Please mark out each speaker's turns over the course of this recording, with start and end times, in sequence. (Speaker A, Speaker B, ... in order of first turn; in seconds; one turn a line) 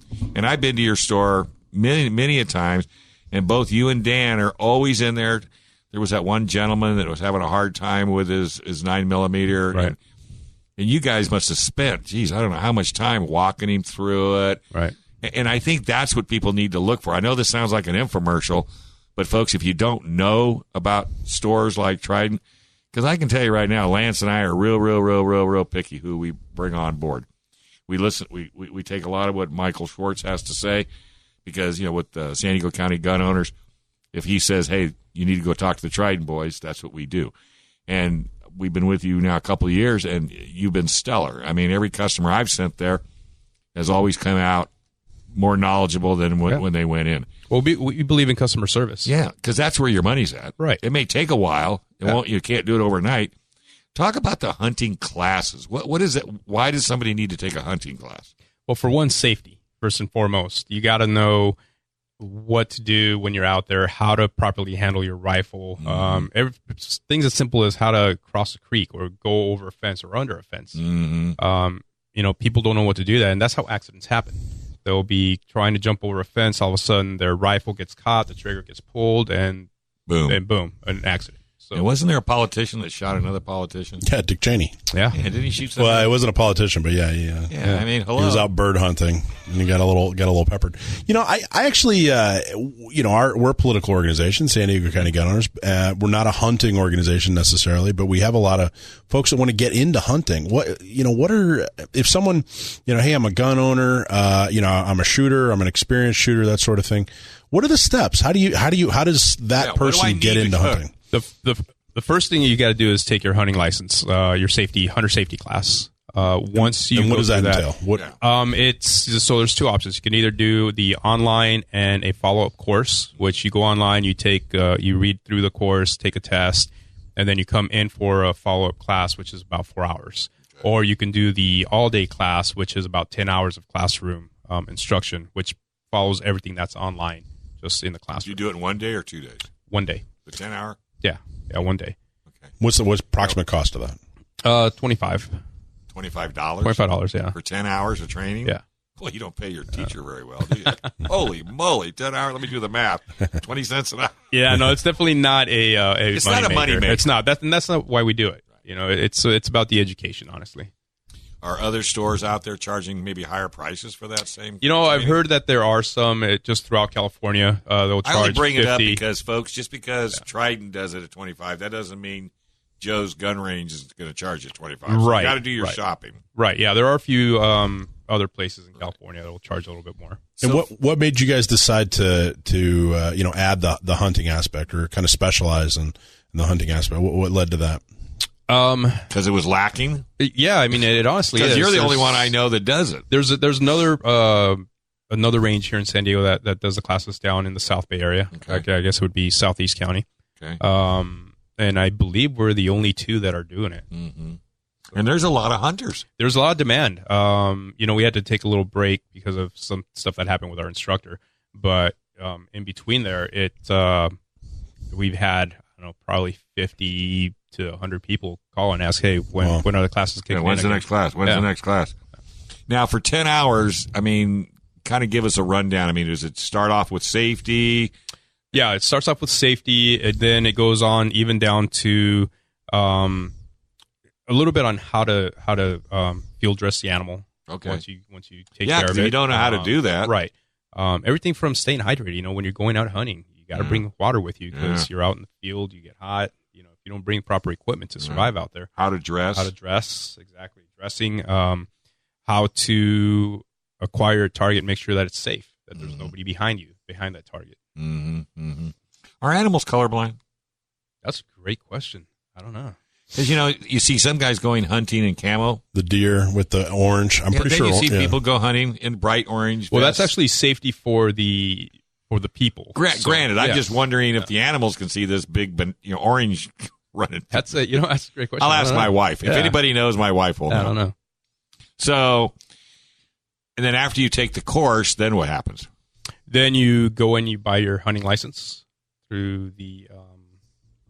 Speaker A: 0.3-9.9
Speaker A: 10.8-14.6
Speaker A: 15.2-22.4
Speaker A: 22.9-27.2
Speaker A: 27.9-30.9
Speaker A: 31.4-33.5
Speaker A: 34.1-37.3
Speaker A: 37.9-43.0
Speaker A: 43.7-44.7
Speaker A: 45.3-47.2
Speaker B: 47.5-49.1
Speaker A: 49.0-53.3
Speaker A: 53.9-58.3
Speaker B: 58.7-61.5
Speaker B: 62.2-70.8
Speaker A: 65.8-66.3
Speaker A: 70.8-71.4
Speaker B: 71.4-79.7
Speaker A: 80.1-80.4
Speaker B: 80.3-81.9
Speaker A: 81.7-84.0
Speaker C: 84.0-84.8
Speaker B: 84.9-85.2
Speaker A: 85.1-86.1
Speaker C: 85.8-87.5
Speaker A: 87.5-88.5
Speaker C: 88.0-110.9
Speaker A: 109.5-110.8
Speaker B: 111.1-117.7
Speaker C: 116.5-118.1
Speaker B: 118.2-138.4
Speaker A: 138.2-139.5
Speaker B: 139.7-140.1
Speaker A: 140.2-140.8
Speaker B: 141.0-141.9
Speaker C: 142.6-144.0
Speaker B: 144.4-145.3
Speaker A: 145.9-146.8
Speaker B: 146.6-147.3
Speaker A: 147.3-154.1
Speaker B: 154.3-160.7
Speaker A: 156.1-157.0
Speaker A: 161.4-165.2
Speaker B: 164.6-169.0
Speaker A: 168.0-176.2
Speaker B: 174.9-175.8
Speaker B: 176.3-180.2
Speaker C: 180.4-187.8
Speaker B: 188.5-189.1
Speaker A: 189.1-190.0
Speaker B: 190.2-192.3
Speaker A: 191.3-193.0
Speaker B: 193.1-200.0
Speaker A: 198.3-198.6
Speaker B: 200.6-203.8
Speaker A: 203.9-204.4
Speaker A: 204.9-206.0
Speaker B: 206.2-214.1
Speaker B: 214.9-221.5
Speaker C: 219.4-219.6
Speaker A: 220.3-221.9
Speaker A: 222.7-227.9
Speaker B: 228.5-233.3
Speaker B: 234.3-248.7
Speaker A: 237.5-237.8
Speaker A: 238.6-240.1
Speaker A: 243.5-243.8
Speaker A: 244.5-244.9
Speaker A: 248.0-249.5
Speaker B: 249.3-251.7
Speaker B: 252.2-257.6
Speaker A: 255.8-256.1
Speaker A: 257.8-260.2
Speaker B: 261.0-262.8
Speaker A: 263.1-265.6
Speaker C: 265.7-268.2
Speaker A: 267.3-270.1
Speaker B: 269.7-273.7
Speaker A: 272.7-277.4
Speaker B: 277.3-279.6
Speaker A: 278.4-280.7
Speaker B: 280.5-280.9
Speaker A: 281.8-282.3
Speaker A: 283.6-285.7
Speaker B: 286.3-290.2